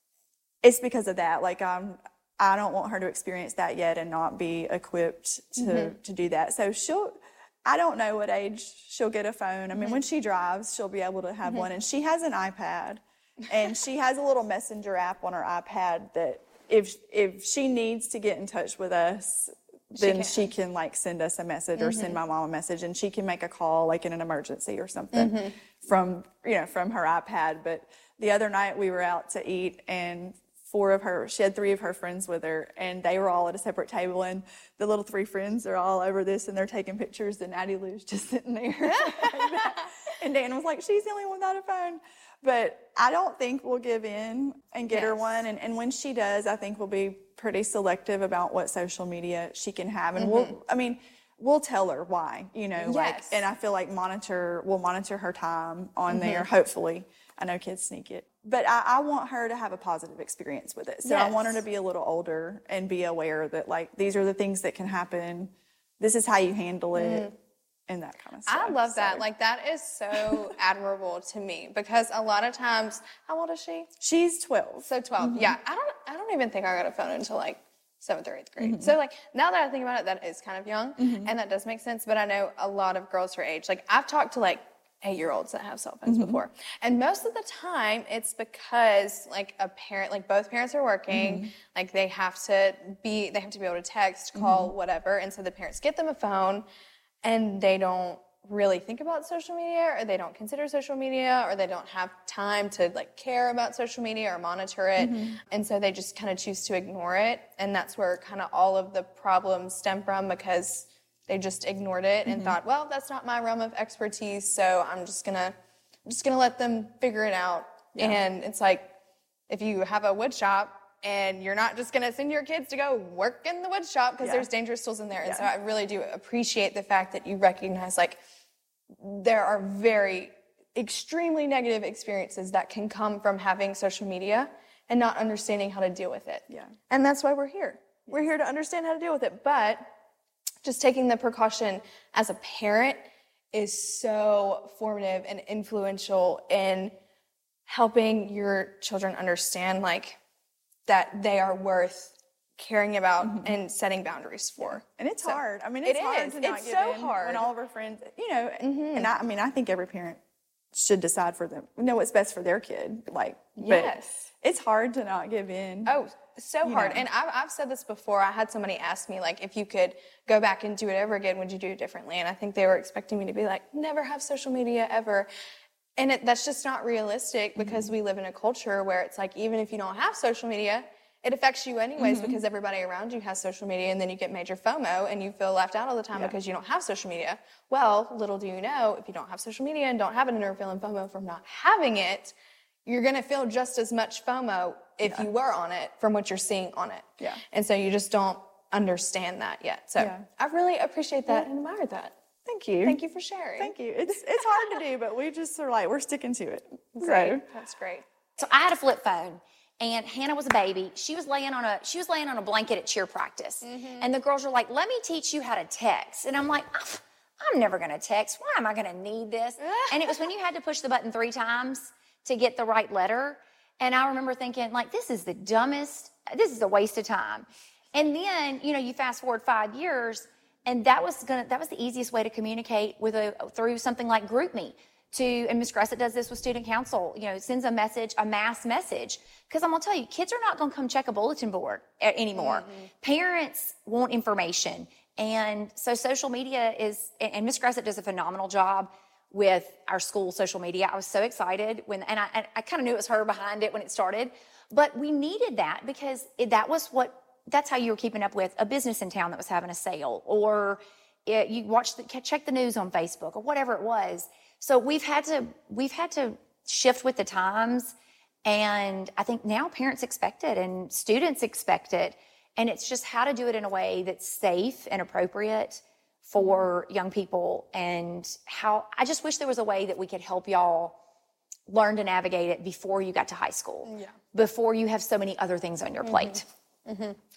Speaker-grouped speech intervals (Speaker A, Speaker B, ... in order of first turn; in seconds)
Speaker A: 0.6-67.3, 67.9-69.2, 70.1-70.5, 74.0-75.5, 78.6-79.0, 81.0-81.3, 86.0-86.4, 91.1-91.5, 94.3-94.7, 105.0-105.4, 112.2-112.6, 124.2-124.5, 125.2-125.5, 153.2-153.5, 154.8-160.2, 160.7-165.9, 166.6-167.0, 177.6-177.9, 182.0-182.4, 200.0-200.2, 202.4-203.0, 203.6-207.4
Speaker B: 5.6-5.9, 9.8-10.0, 19.9-20.5, 21.8-22.2, 25.1-25.5, 38.8-39.9, 44.9-45.2, 50.2-50.5, 52.8-53.5, 56.1-56.5, 61.0-61.6, 67.0-67.3, 68.5-73.9, 74.8-96.7, 97.2-115.5, 116.0-118.9, 119.5-128.2, 129.0-139.9, 140.6-146.9, 147.7-150.2, 150.9-157.4, 158.6-159.1, 163.6-164.2, 165.8-175.3, 176.0-192.3, 192.8-202.1, 202.8-203.8, 204.4-204.6, 206.9-208.0, 213.6-214.1, 219.6-220.1, 242.3-242.9, 276.4-276.6, 283.8-284.1, 286.0-287.2
Speaker C: 208.4-267.9, 268.4-280.9, 281.7-286.4